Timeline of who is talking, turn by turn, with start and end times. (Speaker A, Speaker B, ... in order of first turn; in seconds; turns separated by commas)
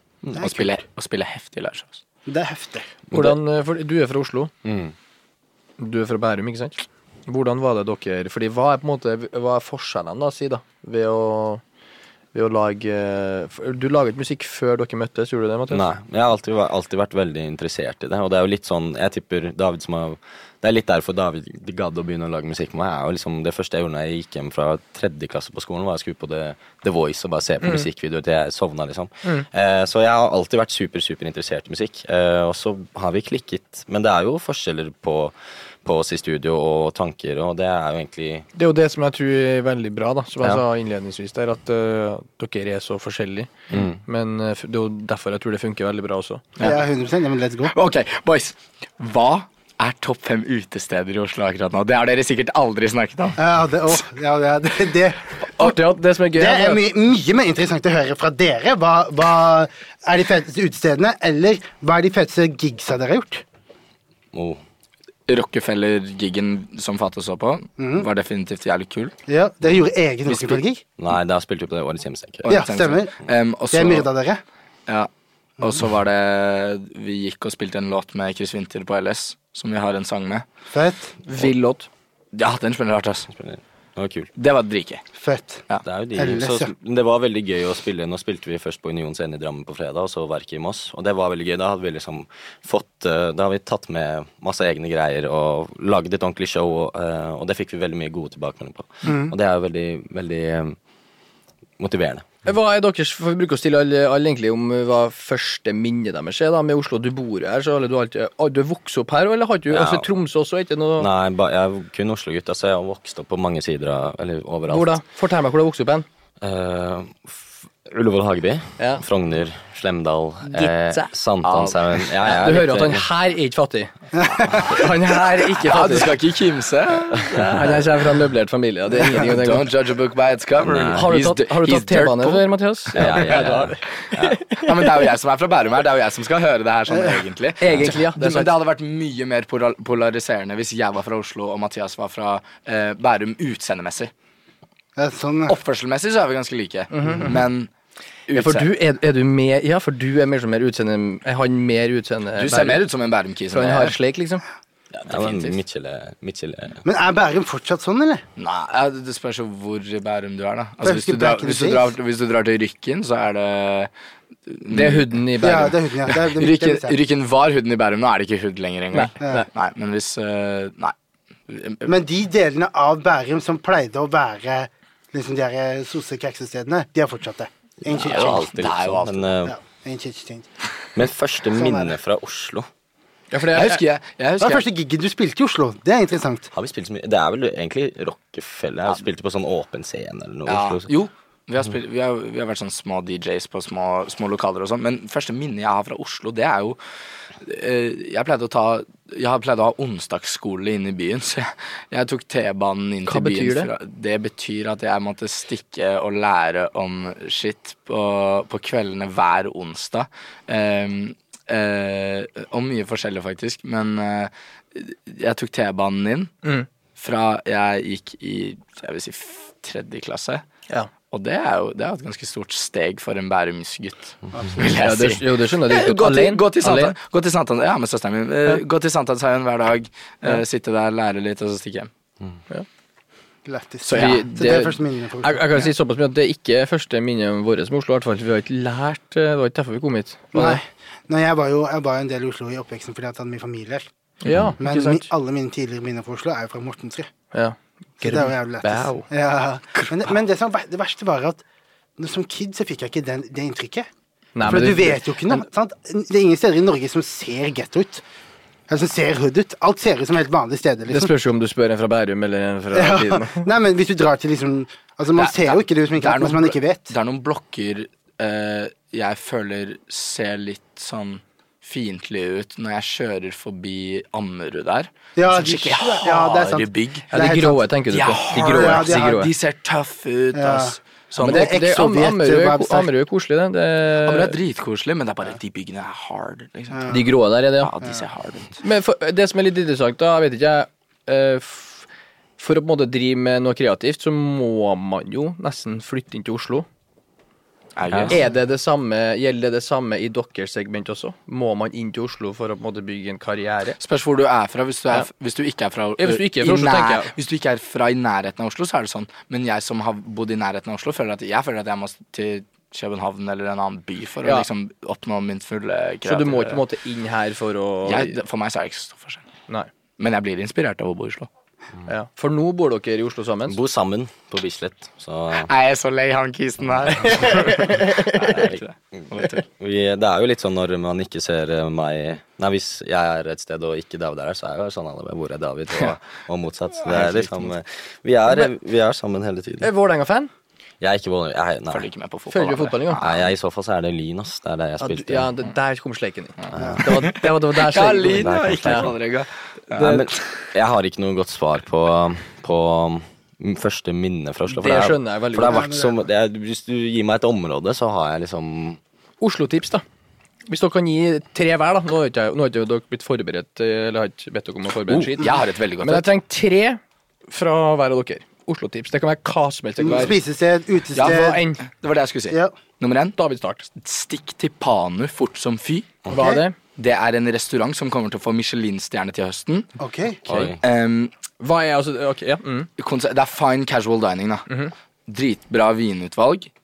Speaker A: 0.3-2.0, Speaker B: 0.3-0.7, Speaker B: 2.3-2.9, Speaker C: 3.1-4.5, Speaker D: 4.6-4.9, Speaker C: 5.8-11.6, Speaker C: 12.3-15.8, Speaker D: 15.7-38.5, Speaker C: 38.5-46.5, Speaker D: 43.7-44.0, Speaker A: 46.6-46.8, Speaker B: 46.6-47.7, Speaker A: 47.7-53.4, Speaker B: 53.4-55.8, Speaker C: 55.6-56.8, Speaker B: 56.4-63.4, Speaker D: 64.3-64.6, Speaker A: 65.3-69.1, Speaker B: 67.8-68.1, Speaker B: 69.3-70.8, Speaker A: 70.3-70.6, Speaker D: 71.0-72.6, Speaker A: 72.5-74.1, Speaker B: 72.5-73.1, Speaker B: 73.7-74.4, Speaker A: 75.6-80.5, Speaker B: 80.7-81.2, Speaker C: 81.3-81.9, Speaker A: 82.3-83.3, Speaker D: 83.3-84.3, Speaker A: 84.4-85.0, Speaker B: 85.2-85.6, Speaker D: 85.8-100.8, Speaker B: 86.2-86.7, Speaker B: 99.0-99.3, Speaker D: 101.8-102.3, Speaker C: 102.5-111.1, Speaker D: 109.7-110.1, Speaker D: 111.0-115.0, Speaker C: 114.7-116.0, Speaker D: 116.4-123.1, Speaker C: 118.8-119.0, Speaker C: 120.5-121.1, Speaker A: 121.4-121.8, Speaker C: 122.2-123.9, Speaker B: 124.2-124.7, Speaker C: 124.5-126.2, Speaker A: 125.6-127.9, Speaker C: 127.1-129.7, Speaker A: 128.9-133.2, Speaker D: 130.6-131.1, Speaker C: 130.9-135.1, Speaker D: 132.9-134.4, Speaker A: 134.6-144.1, Speaker B: 136.9-137.3, Speaker C: 137.6-138.5, Speaker B: 144.9-145.6, Speaker A: 145.5-147.7, Speaker C: 146.9-147.4, Speaker B: 147.1-147.4, Speaker A: 148.3-148.7, Speaker C: 148.3-152.8, Speaker A: 152.4-154.0, Speaker C: 153.5-154.4, Speaker D: 154.9-156.8, Speaker A: 155.1-155.6, Speaker B: 156.8-158.2, Speaker A: 158.4-163.9, Speaker B: 160.8-161.9, Speaker A: 164.5-170.9, Speaker C: 164.7-165.8, Speaker B: 165.4-167.0, Speaker C: 168.9-169.5, Speaker A: 171.5-171.9, Speaker B: 171.9-178.5, Speaker A: 177.9-179.3, Speaker D: 177.9-179.6, Speaker B: 179.4-180.5, Speaker D: 180.9-182.7, Speaker B: 181.5-181.9, Speaker C: 183.3-183.8, Speaker A: 183.5-184.7, Speaker B: 184.4-186.5, Speaker D: 186.5-190.9, Speaker A: 190.4-196.8, Speaker A: 197.4-216.3, Speaker C: 203.1-203.7, Speaker A: 216.9-220.4, Speaker A: 221.1-231.9, Speaker C: 224.7-226.9, Speaker B: 233.4-235.7, Speaker A: 233.8-234.6, Speaker C: 233.9-240.6, Speaker B: 240.3-243.9, Speaker C: 244.2-245.1, Speaker B: 244.6-247.1, Speaker C: 247.3-249.1, Speaker B: 248.0-251.4, Speaker B: 252.0-253.9, Speaker C: 254.4-255.4, Speaker B: 254.4-258.0, Speaker B: 258.7-261.1, Speaker C: 260.9-263.4, Speaker B: 262.7-266.9, Speaker A: 265.1-277.1, Speaker B: 275.2-277.6, Speaker C: 277.1-279.3, Speaker A: 277.9-281.6, Speaker B: 278.3-279.1, Speaker B: 280.3-282.9, Speaker C: 281.2-284.4, Speaker A: 284.1-287.0, Speaker B: 286.7-287.1, Speaker C: 286.9-287.7, Speaker A: 287.6-288.6, Speaker C: 288.6-291.9, Speaker C: 292.4-296.7, Speaker A: 297.8-298.2, Speaker D: 297.9-298.2, Speaker C: 298.1-303.8, Speaker A: 303.8-316.6, Speaker C: 306.0-307.1, Speaker C: 316.1-318.1, Speaker A: 317.9-319.2, Speaker A: 320.0-321.3, Speaker C: 321.9-323.6, Speaker D: 323.4-325.5, Speaker A: 325.4-329.4, Speaker C: 327.0-328.4, Speaker D: 328.2-339.7, Speaker A: 336.9-337.5, Speaker C: 339.6-340.3, Speaker D: 340.8-341.9, Speaker A: 341.7-343.3, Speaker C: 342.3-343.0, Speaker D: 343.0-345.3, Speaker C: 344.8-348.9, Speaker A: 346.4-350.5, Speaker D: 346.5-346.8, Speaker D: 348.0-348.9, Speaker C: 349.7-350.1, Speaker D: 349.8-358.8, Speaker C: 354.5-355.8, Speaker B: 355.4-355.9, Speaker C: 359.2-359.8, Speaker C: 360.5-370.2, Speaker A: 364.9-366.1, Speaker B: 369.8-371.4, Speaker A: 370.9-373.2, Speaker C: 371.0-371.6, Speaker C: 373.2-373.7, Speaker A: 373.7-376.1, Speaker C: 376.1-376.6, Speaker B: 376.2-376.4, Speaker A: 376.8-379.7, Speaker B: 379.8-380.2, Speaker D: 380.2-380.6, Speaker C: 380.3-380.6, Speaker A: 380.6-381.1, Speaker C: 381.4-382.7, Speaker A: 382.8-384.5, Speaker A: 385.1-386.5